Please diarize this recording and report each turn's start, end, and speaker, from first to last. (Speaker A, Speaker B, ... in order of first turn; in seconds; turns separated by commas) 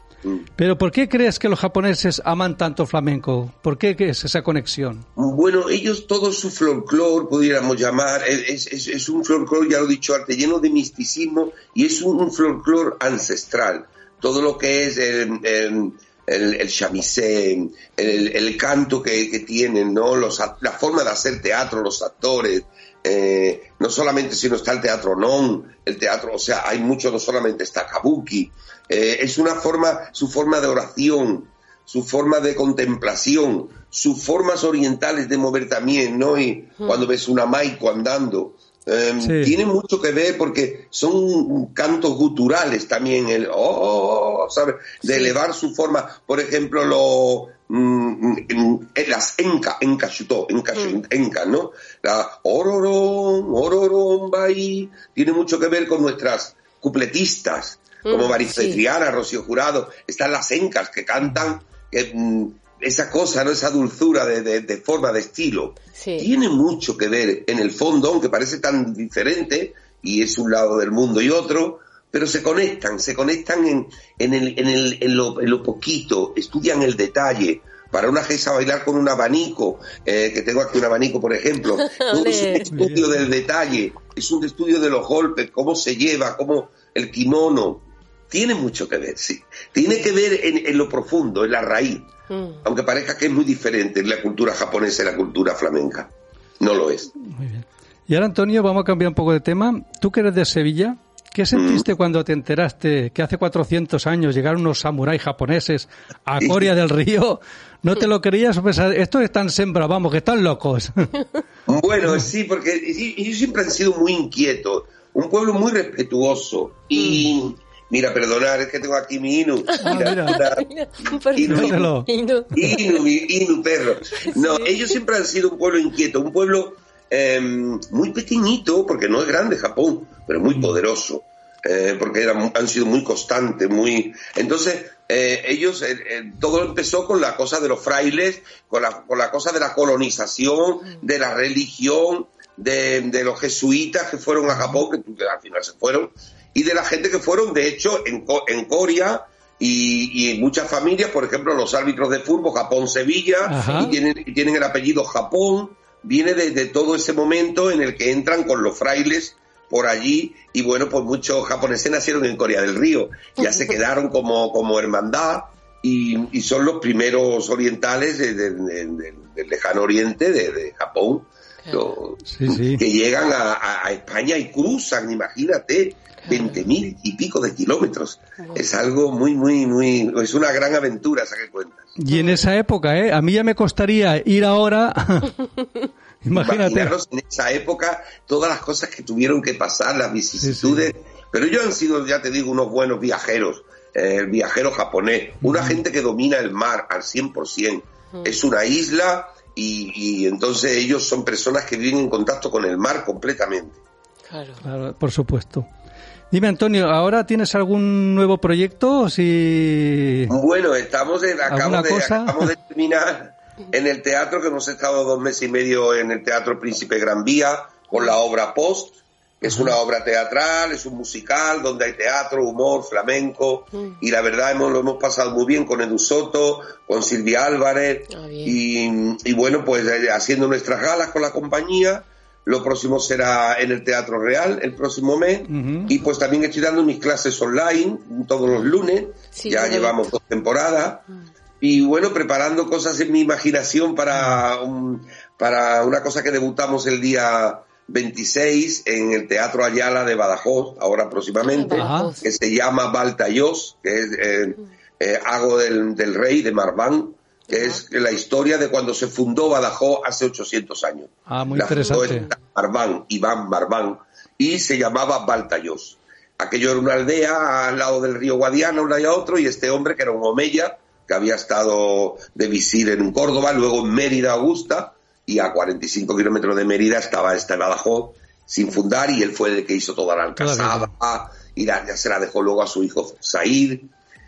Speaker A: 0.6-5.0, Speaker B: 5.2-92.1, Speaker C: 36.8-37.1, Speaker A: 39.2-39.6, Speaker C: 45.0-45.4, Speaker C: 58.0-58.8, Speaker C: 65.9-66.3, Speaker C: 81.8-82.7, Speaker A: 82.7-83.0, Speaker C: 92.3-92.6, Speaker B: 92.6-97.1, Speaker A: 97.2-111.1, Speaker B: 101.5-101.8, Speaker B: 106.4-106.7, Speaker B: 111.7-120.6, Speaker C: 119.7-123.0, Speaker A: 119.8-120.4, Speaker B: 121.3-121.8, Speaker A: 121.5-122.1, Speaker B: 122.5-181.9, Speaker C: 124.3-124.8, Speaker A: 153.4-153.9, Speaker C: 163.4-163.7, Speaker A: 172.2-172.8, Speaker C: 176.2-176.6, Speaker C: 178.4-178.6, Speaker A: 182.0-185.3, Speaker C: 182.1-182.5, Speaker A: 186.2-186.9, Speaker B: 186.3-203.8, Speaker A: 190.4-190.9, Speaker A: 195.4-195.8, Speaker C: 198.1-198.4, Speaker C: 204.3-204.6, Speaker A: 204.6-205.7, Speaker A: 206.3-210.3, Speaker B: 210.3-241.1, Speaker A: 211.5-212.5, Speaker A: 219.4-219.8, Speaker C: 228.1-228.6, Speaker A: 235.5-235.9, Speaker C: 239.3-240.0, Speaker B: 241.6-283.9, Speaker C: 251.4-252.3, Speaker A: 251.8-252.1, Speaker C: 257.5-257.8, Speaker A: 261.3-262.2, Speaker A: 280.4-280.9